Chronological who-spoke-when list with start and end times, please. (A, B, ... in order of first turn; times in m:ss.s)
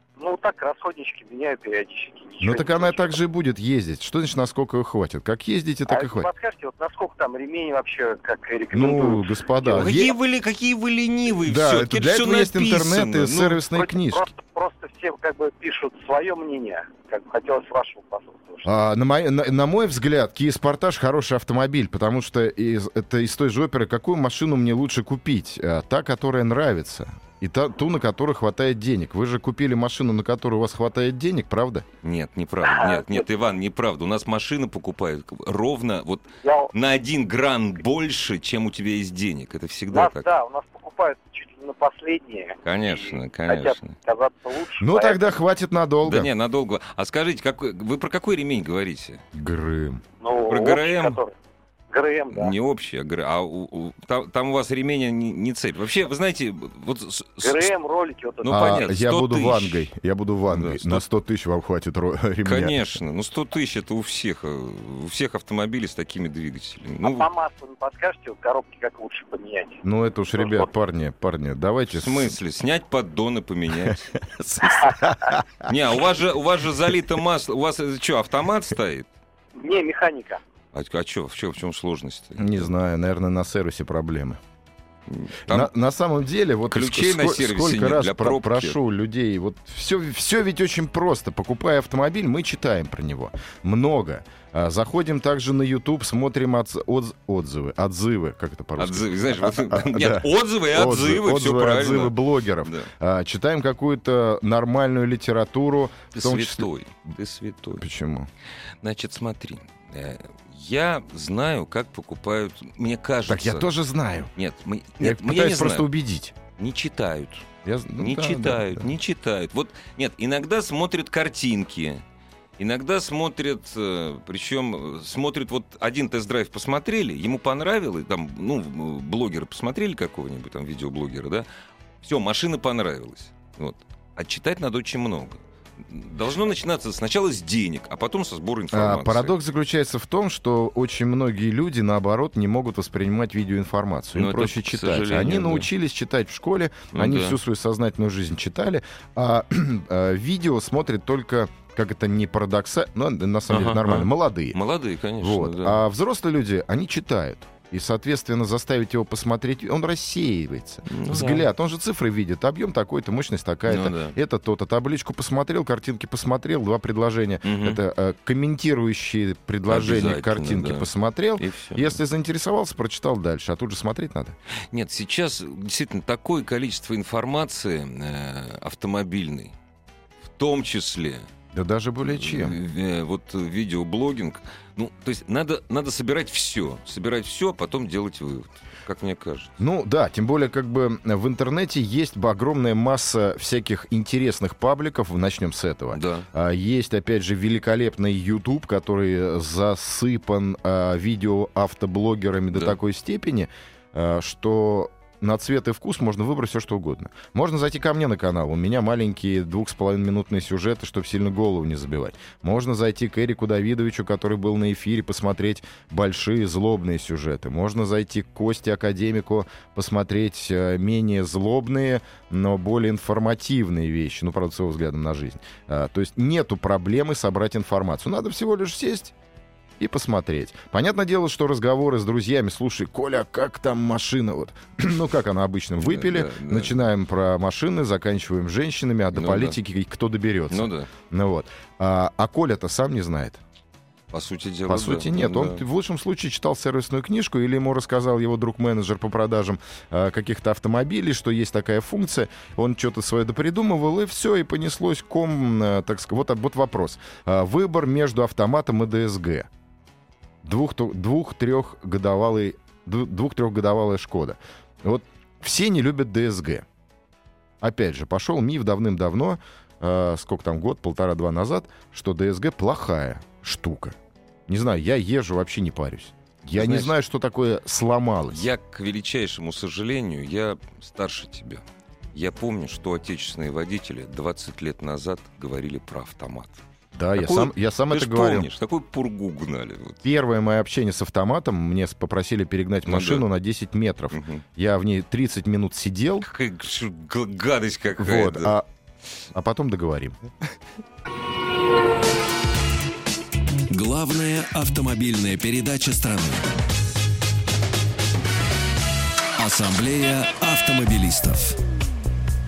0:00.2-0:03.2 A
0:02.4-0:06.3 B
0:05.9-0:10.0 A
0:08.7-0:10.1 B
0:09.7-0:13.6 C
0:11.4-0:14.2 B
0:13.7-0:18.7 A
0:18.6-0:31.8 B
0:32.0-0:40.3 C
0:32.6-0:33.2 A
0:36.4-0:36.7 A
0:39.9-0:45.3 A
0:42.6-0:44.0 C
0:44.8-0:46.3 B
0:46.0-0:49.2 C
0:49.3-0:50.0 B
0:50.2-0:51.3 A
0:50.5-0:51.2 C
0:51.9-0:52.5 A
0:52.3-0:57.7 C
0:57.4-0:58.8 A
0:58.4-0:59.9 C
0:58.4-1:02.9 B
1:00.5-1:01.0 C
1:02.4-1:07.2 C
1:07.0-1:09.8 A
1:09.8-1:12.3 B
1:10.4-1:10.7 A
1:11.9-1:14.1 C
1:13.9-1:15.7 B
1:15.6-1:19.1 C
1:19.5-1:20.4 A
1:20.7-1:22.7 C
1:22.4-1:24.4 B
1:25.1-1:25.7 C
1:25.5-1:46.7 B
1:26.7-1:28.8 C
1:38.8-1:42.9 C
1:46.1-1:47.8 C
1:47.8-1:48.3 B
1:48.8-1:53.7 C
1:53.3-1:54.3 B
1:54.3-1:55.9 C
1:55.0-1:56.4 B
1:56.6-2:02.0 C
1:57.6-1:58.9 B
2:02.6-2:11.5 C
2:12.0-2:19.3 C
2:18.7-2:34.6 B
2:24.1-2:25.7 C
2:26.9-2:27.4 C
2:33.5-2:35.8 C
2:35.2-2:54.4 B
2:40.9-2:41.5 C
2:43.7-2:44.2 C
2:47.4-2:47.8 C
2:49.7-2:52.0 C
2:54.7-2:59.5 C
3:00.2-3:01.3 C
3:01.5-3:02.6 B
3:02.1-3:09.5 C
3:09.6-3:49.1 B
3:15.9-3:16.3 C
3:49.8-4:03.4 B
3:55.8-3:56.8 C
3:59.1-3:59.6 C
4:00.5-4:00.9 C
4:04.1-4:05.6 C
4:04.7-4:19.5 B
4:20.4-4:26.6 B
4:27.6-4:34.0 B
4:34.5-4:38.5 B
4:36.6-4:36.9 C
4:38.3-4:41.6 C
4:42.1-4:46.6 C
4:46.9-4:48.5 B
4:47.2-4:50.0 C
4:50.0-4:56.3 B
4:52.8-4:53.2 C
4:54.1-4:54.4 C
4:56.2-4:58.5 C
4:58.0-4:58.6 B
4:59.3-5:00.2 B
5:03.7-5:06.5 D
5:09.4-5:11.6 D